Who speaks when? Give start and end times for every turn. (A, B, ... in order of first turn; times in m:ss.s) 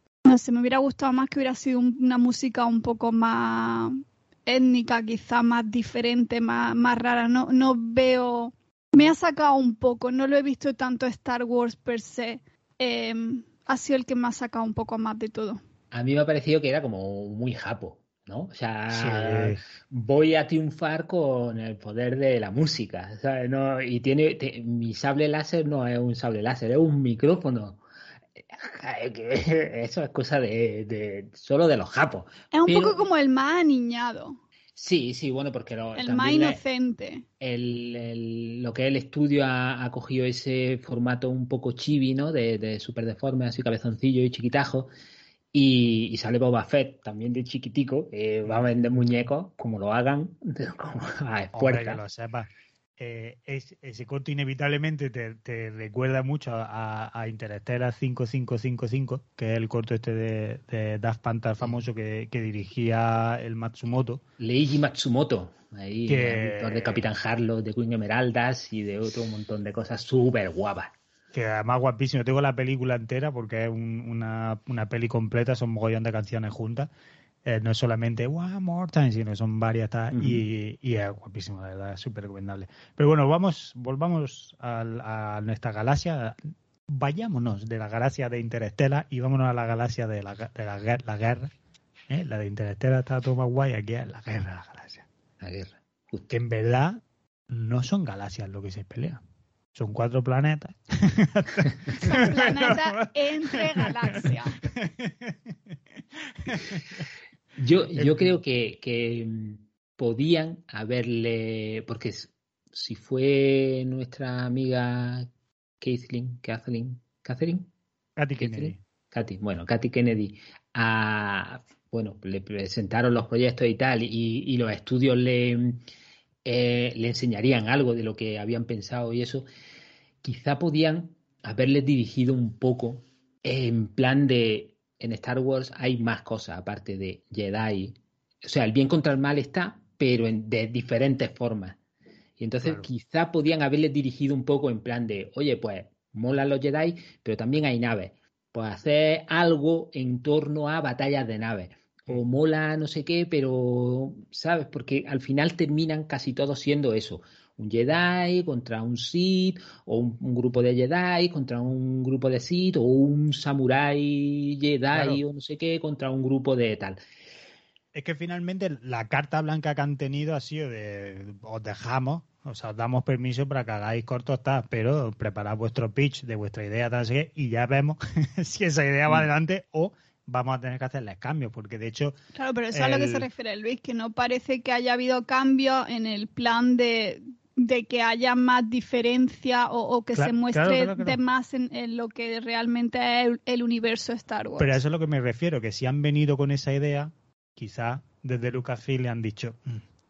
0:00.2-0:15.6 A
0:15.9-0:27.8 B
0:18.9-0:19.6 C
0:28.4-0:33.0 B
0:32.5-0:34.4 A
0:34.8-0:36.6 B
0:36.0-0:37.2 A
0:37.4-0:44.9 B
0:45.5-0:52.0 B
0:51.5-1:04.2 C
1:04.4-1:10.9 B
1:06.1-1:07.1 C
1:11.3-1:16.9 C
1:17.4-1:31.5 C
1:20.1-1:20.4 B
1:32.1-1:35.0 C
1:35.4-1:36.3 B
1:36.3-1:39.2 C
1:39.7-1:45.4 C
1:41.9-1:44.6 A
1:46.3-1:47.0 C
1:47.6-1:55.3 B
1:47.9-1:48.3 C
1:55.8-1:57.7 B
1:58.2-1:58.8 C
1:58.4-2:05.8 B
2:06.4-2:09.5 B
2:10.2-2:21.8 B
2:22.4-2:47.0 B
2:44.9-2:45.2 C
2:47.9-3:02.2 C
3:02.3-3:14.8 A
3:02.7-3:03.3 C
3:10.1-3:11.2 C
3:14.6-3:19.8 C